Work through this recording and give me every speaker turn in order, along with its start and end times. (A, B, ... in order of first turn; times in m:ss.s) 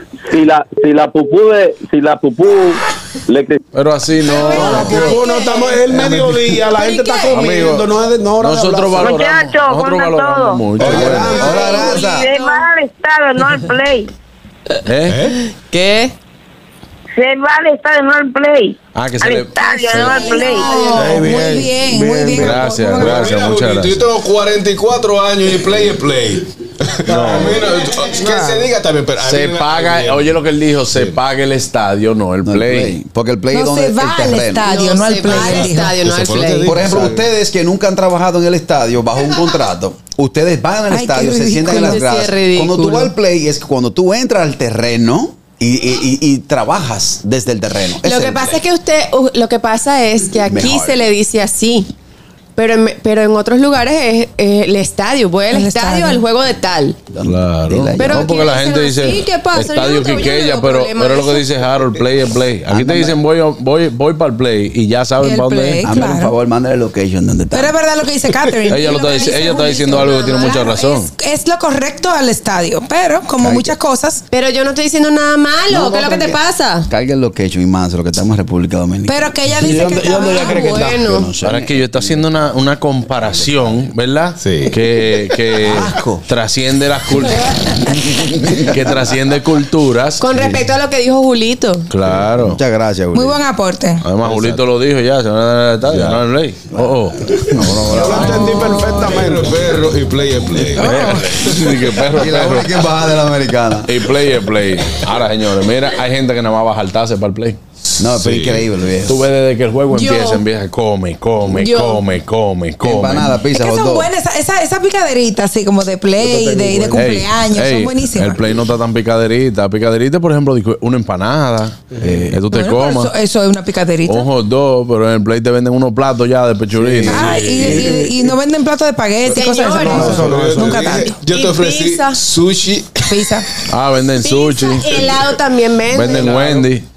0:00.3-0:03.6 A
0:03.7-0:05.2 B
0:04.3-0:05.6 C
0:04.5-0:09.2 D
0:05.2-0:05.7 E
0:06.0-0:06.3 F
0:06.9-0:07.3 E
0:07.3-0:11.5 B
0:09.0-0:10.7 G
0:10.7-0:11.7 D
0:10.9-0:12.3 H
0:11.5-0:14.1 G
0:11.8-0:12.1 E
0:14.8-0:15.2 B
0:15.1-0:15.4 F
0:15.7-0:16.1 E
0:17.2-0:20.9 G
0:18.9-0:20.4 B
0:19.9-0:23.3 C
0:20.8-0:22.7 D
0:22.3-0:24.0 B
0:22.9-0:31.2 F
0:27.1-0:27.8 B
0:27.6-0:28.7 D
0:29.2-0:33.0 B
0:32.4-0:34.7 H
0:33.5-0:36.0 C
0:34.6-0:36.8 E
0:35.2-0:37.3 F
0:36.6-0:48.6 H
0:40.9-0:42.0 C
0:41.8-0:43.1 E
0:48.0-0:51.9 E
0:50.4-0:51.0 H
0:52.6-0:57.0 E
0:55.5-0:56.2 C
0:57.1-0:58.5 H
0:57.2-1:05.9 B
0:58.0-1:01.6 E
1:02.7-1:03.2 H
1:05.2-1:06.3 C
1:05.8-1:07.8 H
1:07.5-1:14.2 C
1:08.7-1:11.1 B
1:13.4-1:13.8 H
1:14.3-1:16.9 E
1:15.7-1:22.1 H
1:19.1-1:20.8 C
1:19.7-1:20.8 D
1:20.1-1:21.3 E
1:21.4-1:27.8 B
1:24.4-1:24.8 F
1:25.6-1:26.2 H
1:27.9-1:28.9 H
1:28.5-1:30.4 B
1:30.2-1:31.9 E
1:31.9-1:32.6 B
1:32.4-1:33.4 H
1:33.1-1:34.0 C
1:34.0-1:38.6 B
1:34.2-1:34.6 F
1:35.9-1:36.2 F
1:36.8-1:38.2 H
1:37.9-1:39.7 D
1:38.3-1:39.2 C
1:38.9-1:41.7 F
1:40.8-1:41.4 C
1:40.8-1:42.8 B
1:42.1-1:44.0 H
1:43.9-1:47.6 B
1:48.0-1:49.3 H
1:48.1-1:48.7 F
1:49.1-1:53.3 B
1:49.9-1:50.4 E
1:51.5-1:52.1 E
1:52.8-1:54.1 H
1:53.5-1:58.4 C
1:56.2-1:57.1 D
1:56.9-2:01.8 B
2:01.9-2:02.2 D
2:02.0-2:02.4 H
2:02.3-2:03.1 B
2:02.5-2:04.3 C
2:04.1-2:07.3 B
2:06.7-2:07.9 F
2:07.1-2:11.1 C
2:07.6-2:08.3 D
2:09.3-2:10.1 E
2:09.7-2:11.1 D
2:09.9-2:13.4 F
2:11.0-2:12.2 E
2:13.1-2:13.5 C
2:13.7-2:15.1 B
2:14.2-2:16.4 E
2:14.9-2:15.2 F
2:15.8-2:16.9 B
2:16.1-2:16.7 F